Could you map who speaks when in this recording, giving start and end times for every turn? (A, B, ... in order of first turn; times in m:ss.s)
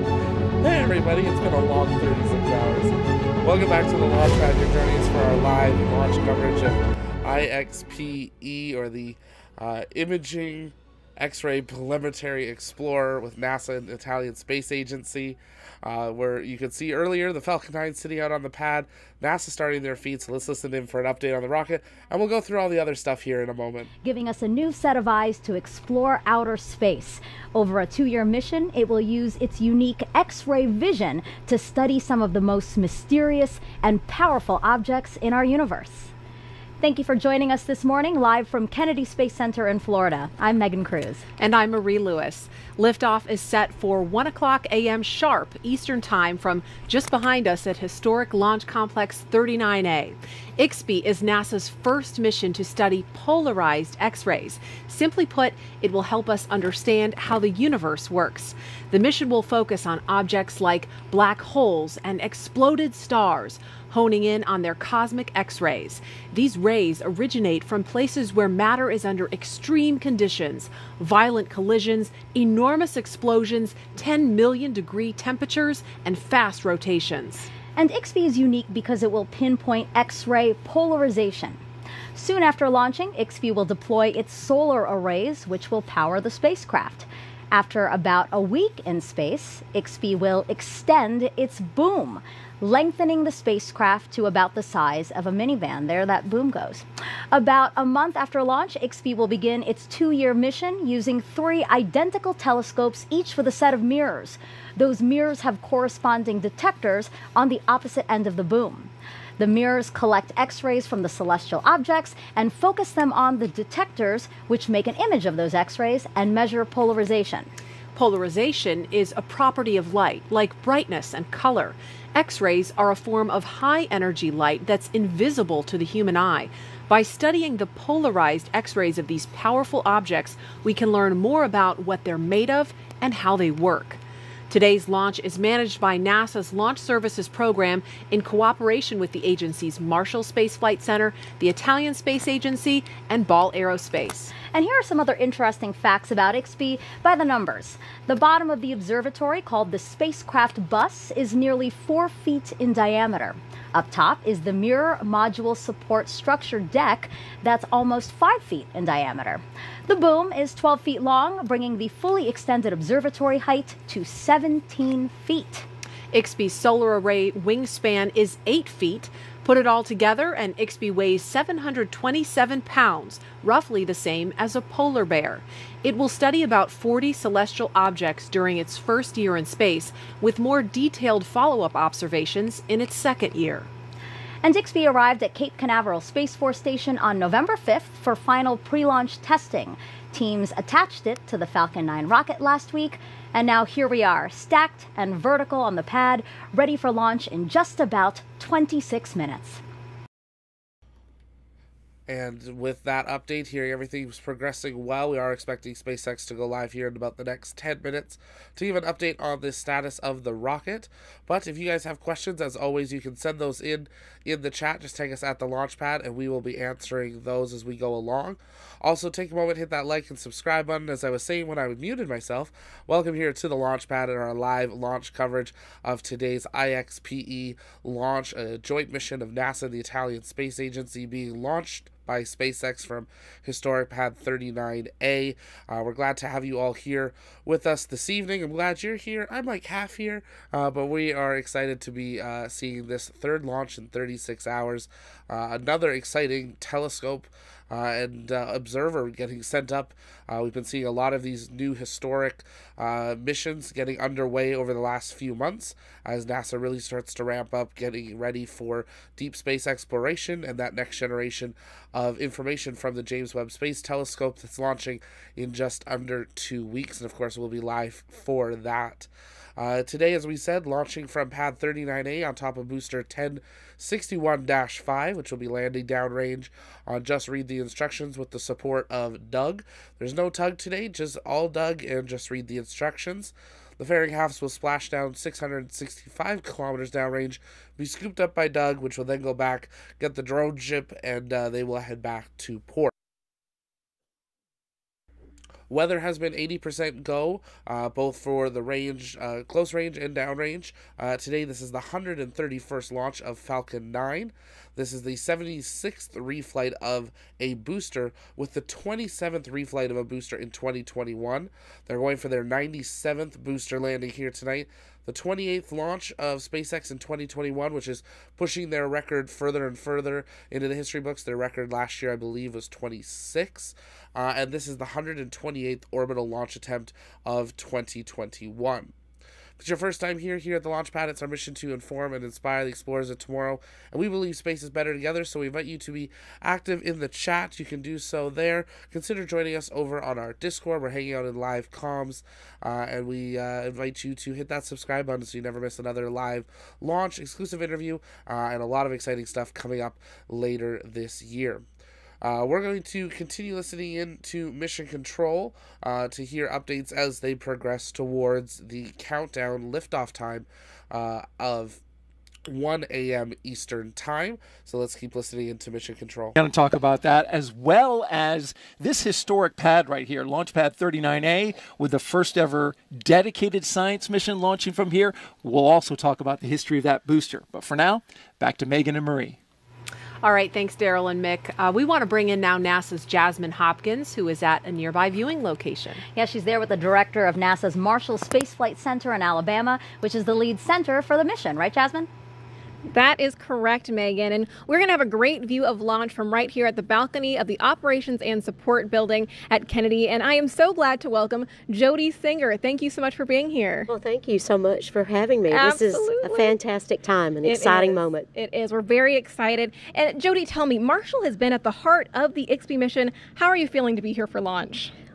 0:00.6-0:23.9 A
0:24.0-0:36.1 B
0:36.8-0:41.2 B
0:41.4-1:17.5 C
1:17.7-1:21.6 B
1:22.1-1:57.5 B
1:57.9-2:24.3 C
2:24.4-2:45.7 B
2:46.1-3:03.7 C
3:04.4-3:19.6 B
3:22.1-4:52.9 A
4:55.7-5:28.9 A
5:29.6-5:51.6 A
5:52.2-6:01.8 A
6:02.5-6:06.3 A
6:06.4-6:19.4 D
6:20.2-6:26.0 C
6:26.1-6:32.1 B
6:32.9-6:43.9 E
6:43.9-6:48.3 F
6:45.5-6:46.6 E
6:47.4-6:54.9 E